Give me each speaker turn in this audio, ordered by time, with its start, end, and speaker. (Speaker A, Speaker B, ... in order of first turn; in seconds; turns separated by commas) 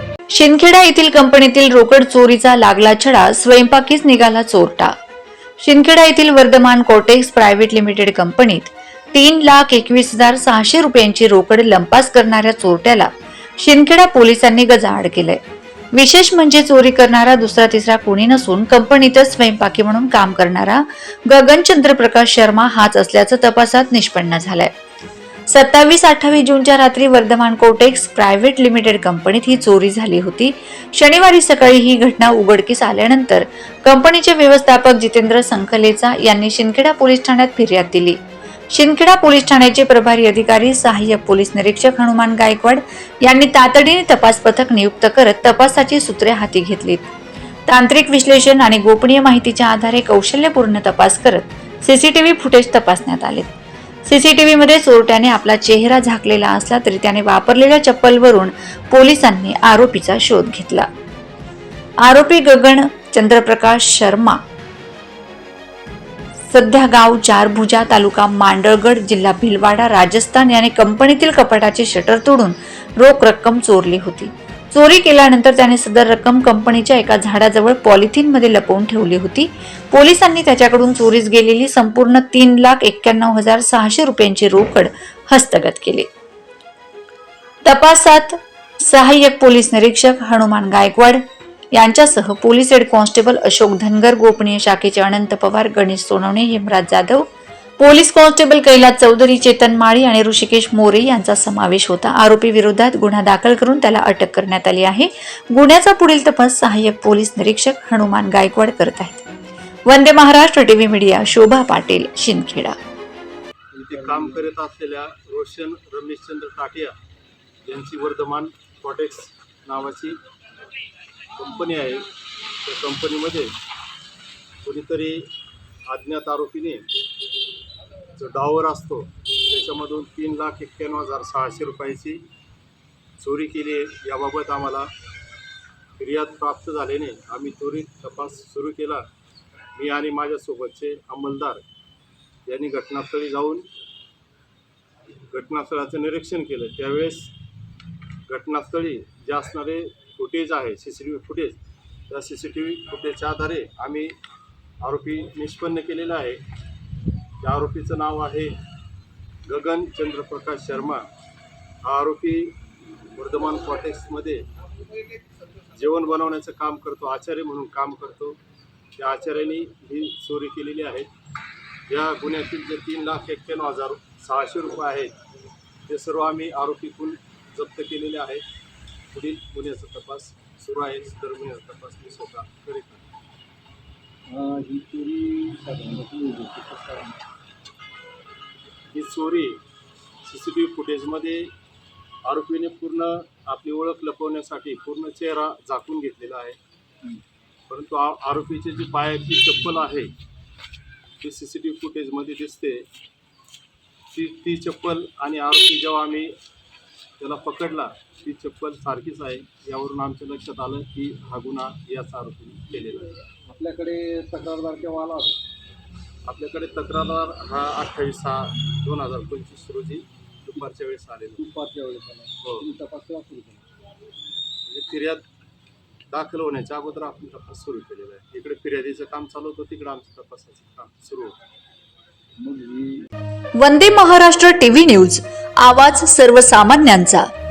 Speaker A: 0.3-4.9, Speaker A: 5.6-15.4, Speaker A: 15.9-24.7, Speaker A: 25.5-38.2, Speaker A: 38.7-47.1, Speaker A: 47.7-53.5, Speaker A: 54.0-60.9, Speaker A: 62.0-64.4, Speaker A: 66.5-86.1, Speaker A: 87.6-91.2, Speaker A: 91.7-97.2, Speaker A: 97.8-109.2, Speaker A: 109.9-112.8, Speaker B: 113.7-116.9, Speaker C: 113.8-114.5, Speaker B: 117.6-120.2, Speaker B: 121.4-122.1, Speaker B: 122.6-123.5, Speaker B: 124.6-125.3, Speaker B: 125.9-126.9, Speaker B: 128.2-132.2, Speaker B: 133.2-134.9, Speaker B: 136.0-139.0, Speaker B: 139.8-141.6, Speaker B: 142.4-143.7, Speaker B: 145.3-147.3, Speaker B: 148.3-151.6, Speaker B: 152.1-154.1, Speaker B: 154.8-156.4, Speaker B: 157.4-158.6, Speaker B: 159.4-161.1, Speaker B: 161.8-162.6, Speaker B: 163.2-164.4, Speaker B: 165.7-168.4, Speaker B: 169.0-171.1, Speaker B: 171.9-175.1, Speaker B: 175.9-178.4, Speaker B: 179.1-183.1, Speaker C: 184.3-187.2, Speaker B: 188.9-189.6, Speaker B: 190.2-191.5, Speaker B: 192.2-196.6, Speaker B: 197.7-200.1, Speaker B: 201.2-202.9, Speaker B: 204.1-206.3, Speaker B: 207.2-213.1, Speaker C: 213.5-215.4, Speaker B: 216.3-221.4, Speaker C: 221.4-223.6, Speaker B: 222.4-222.7, Speaker B: 224.7-225.2, Speaker B: 226.1-231.3, Speaker C: 232.4-233.1, Speaker A: 233.6-237.3